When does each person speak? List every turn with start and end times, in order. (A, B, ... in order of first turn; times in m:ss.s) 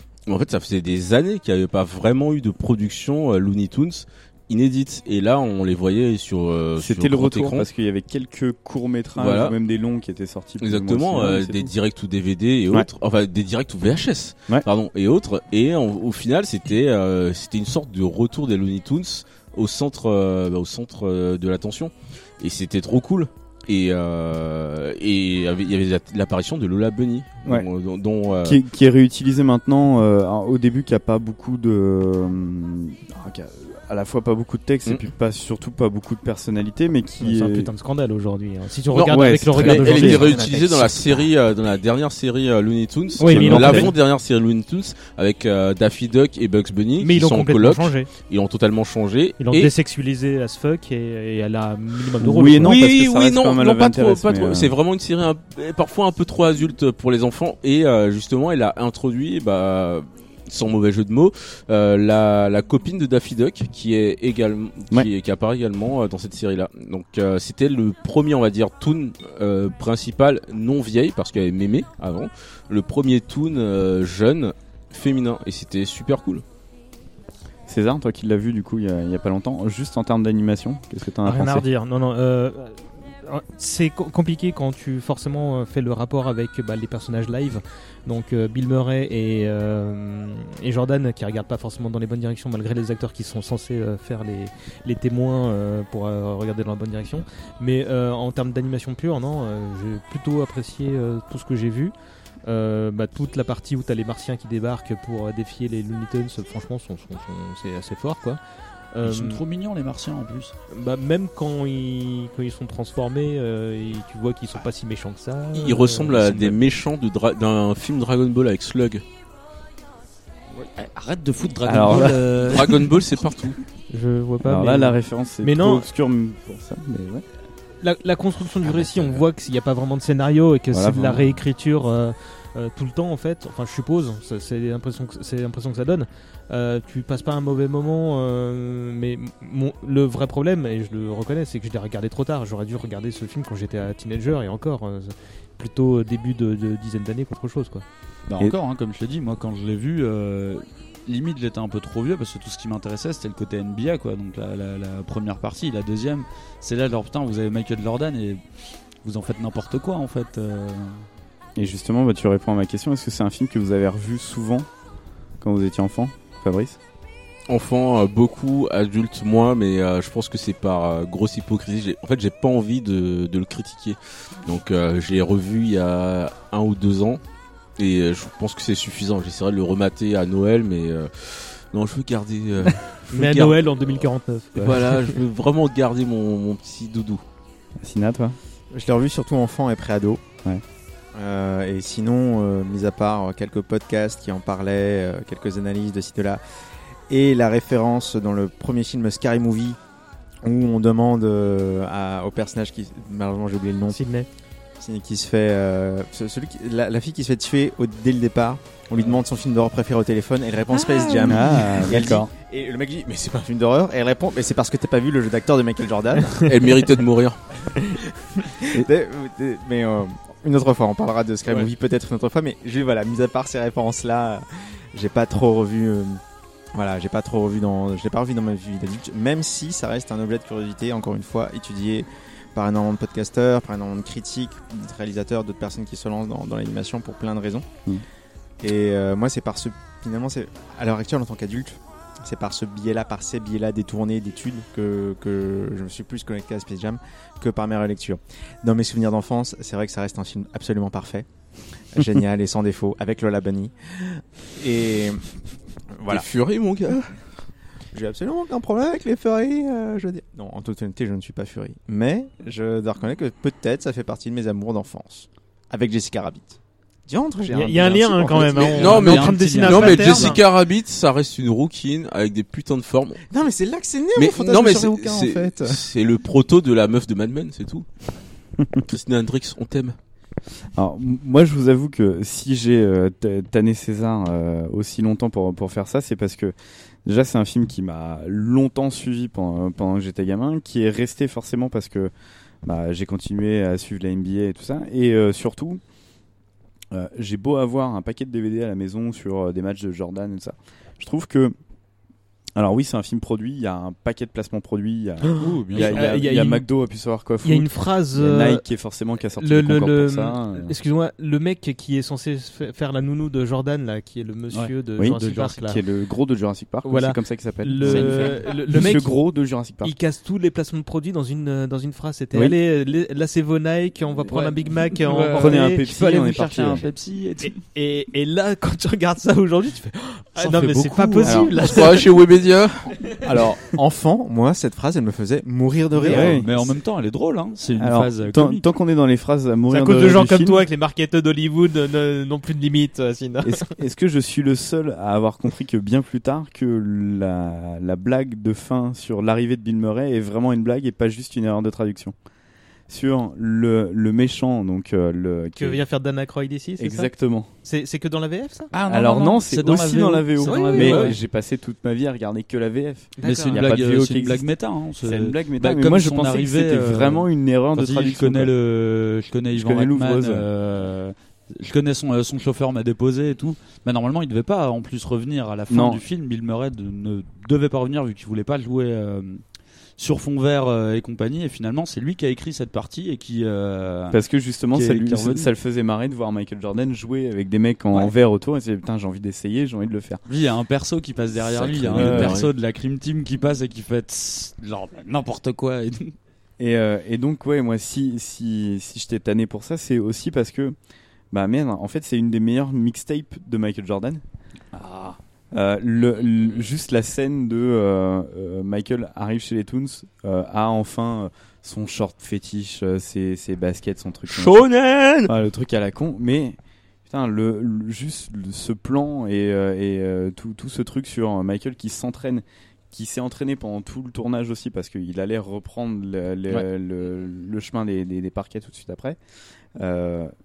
0:00.3-0:07.6 A
0:06.8-0:11.7 B
0:09.2-0:09.6 A
0:10.6-0:28.6 A
0:28.4-0:37.7 B
0:37.2-0:40.8 C
0:38.9-0:49.7 A
0:39.1-0:40.4 B
0:40.4-0:41.0 D
0:43.2-0:43.9 C
0:43.2-0:43.9 B
0:47.0-0:48.1 C
0:49.4-0:52.8 C
0:52.2-0:54.7 B
0:52.6-1:16.4 A
1:17.7-1:21.6 B
1:21.2-1:41.9 C
1:42.4-1:48.4 C
1:48.9-1:49.4 C
1:49.0-1:50.5 E
1:50.7-1:56.3 C
1:55.5-1:59.0 A
2:00.6-2:02.9 E
2:01.6-2:02.6 B
2:02.5-2:03.6 A
2:03.9-2:05.8 C
2:04.4-2:07.2 B
2:07.8-2:27.8 C
2:10.7-2:11.4 B
2:28.3-2:38.4 E
2:39.0-2:41.0 E
2:41.6-2:44.7 B
2:45.4-2:46.8 B
2:47.5-2:57.2 A
2:57.8-3:04.0 A
3:03.1-3:05.2 C
3:04.6-3:07.2 A
3:07.8-3:08.4 B
3:08.7-3:10.2 D
3:11.1-3:16.4 D
3:17.1-3:19.8 D
3:20.4-3:24.0 D
3:23.9-3:24.3 C
3:24.8-3:36.4 D
3:30.8-3:31.7 C
3:31.2-3:32.3 B
3:36.4-3:37.4 A
3:37.6-3:46.2 D
3:46.7-3:57.7 D
3:58.6-4:11.3 D
4:11.9-4:15.3 D
4:15.9-4:16.2 D
4:16.1-4:17.2 A
4:17.9-4:29.0 D
4:27.5-4:30.4 C
4:28.7-4:30.4 E
4:28.7-4:33.2 A
4:33.3-4:35.8 D
4:34.2-4:37.8 A
4:38.8-4:40.0 A
4:40.8-4:46.5 B
4:47.0-4:52.1 B
4:52.6-4:55.8 B
4:56.9-5:01.5 B
5:02.5-5:10.7 B
5:05.3-5:06.6 C
5:05.4-5:06.2 E
5:07.4-5:08.6 C
5:09.4-5:15.8 C
5:15.0-5:19.9 B
5:16.8-5:19.2 C
5:17.8-5:18.4 E
5:19.8-5:25.8 C
5:24.3-5:27.6 E
5:25.3-5:26.8 B
5:27.4-5:32.1 C
5:30.4-5:31.6 E
5:31.2-5:31.6 B
5:31.6-5:32.9 A
5:33.2-5:36.6 D
5:35.9-5:36.3 C
5:36.0-5:36.5 B
5:36.1-5:38.6 E
5:37.8-5:40.6 B
5:39.7-5:43.7 C
5:43.4-5:52.1 B
5:52.9-5:55.8 B
5:55.6-5:57.1 C
5:56.8-5:57.5 B
5:57.6-5:58.7 C
5:58.7-6:01.2 E
5:58.9-6:04.5 B
6:00.4-6:01.1 C
6:03.2-6:03.6 C
6:03.2-6:19.4 E
6:05.0-6:08.5 B
6:09.5-6:10.5 B
6:15.7-6:16.0 B
6:20.0-6:24.2 E
6:24.1-6:30.2 B
6:24.7-6:25.5 E
6:30.3-6:36.2 E
6:31.4-6:32.5 A
6:31.9-6:32.4 B
6:36.6-6:40.8 B
6:41.3-6:44.2 B
6:44.7-6:45.2 E
6:45.5-6:54.6 B
6:54.3-6:55.3 A
6:55.2-7:09.2 B
7:09.8-7:10.3 B